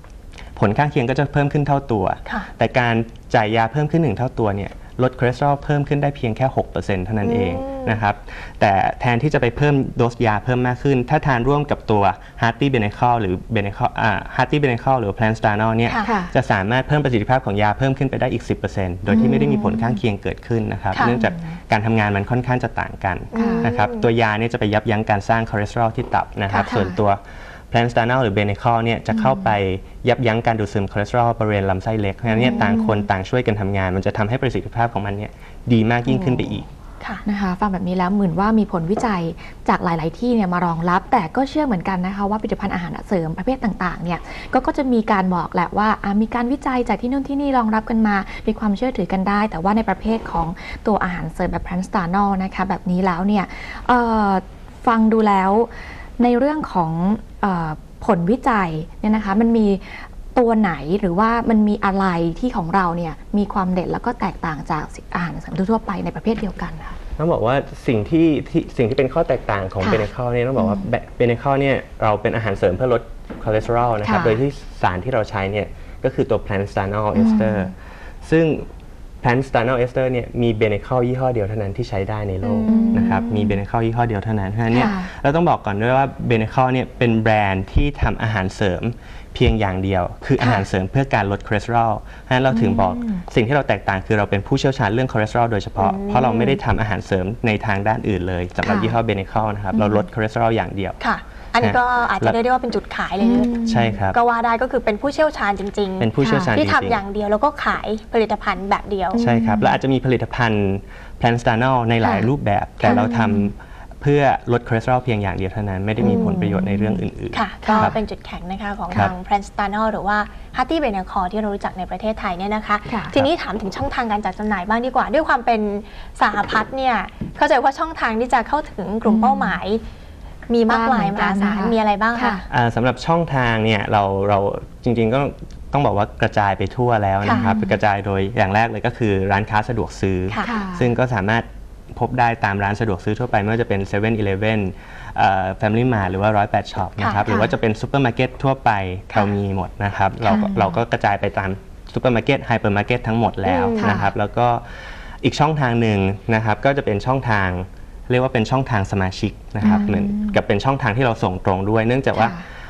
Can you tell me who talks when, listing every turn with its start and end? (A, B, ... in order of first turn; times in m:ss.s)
0:00.6-0:36.6 A
0:07.2-0:08.0 B
0:16.0-0:16.3 C
0:19.1-0:20.0 C
0:21.0-0:21.5 C
0:23.3-0:24.1 B
0:23.3-0:23.6 C
0:26.6-0:27.0 C
0:29.1-0:29.5 C
0:32.3-0:33.1 C
0:36.1-0:36.6 C
0:37.2-1:07.0 C
1:07.2-1:18.6 A
1:09.8-1:10.8 C
1:14.0-1:14.4 C
1:17.1-1:17.7 C
1:19.2-1:41.0 A
1:22.4-1:23.2 B
1:22.7-1:23.6 C
1:24.7-1:25.1 C
1:30.4-1:30.6 C
1:32.5-1:33.2 C
1:35.8-1:36.6 B
1:38.6-1:39.0 C
1:39.7-1:40.0 C
1:41.0-1:43.6 B
1:41.6-1:42.4 A
1:43.2-1:44.0 C
1:43.6-1:44.2 A
1:44.1-1:49.2 B
1:46.0-1:47.0 A
1:46.2-1:46.5 C
1:49.1-1:49.8 C
1:49.2-1:58.0 A
1:52.0-1:52.3 C
1:52.8-1:53.5 C
1:56.0-1:57.0 C
1:56.0-1:56.4 B
1:57.3-2:09.8 B
1:57.6-1:58.0 C
2:02.9-2:03.1 C
2:09.0-2:09.6 C
2:10.5-2:12.4 B
2:10.7-2:12.4 C
2:12.5-2:42.4 A
2:17.2-2:17.8 C
2:20.3-2:20.6 B
2:20.4-2:20.9 C
2:27.0-2:27.3 B
2:27.3-2:27.5 C
2:30.2-2:30.8 C
2:33.4-2:34.0 B
2:33.8-2:34.1 C
2:39.6-2:40.4 C
2:42.1-2:42.4 C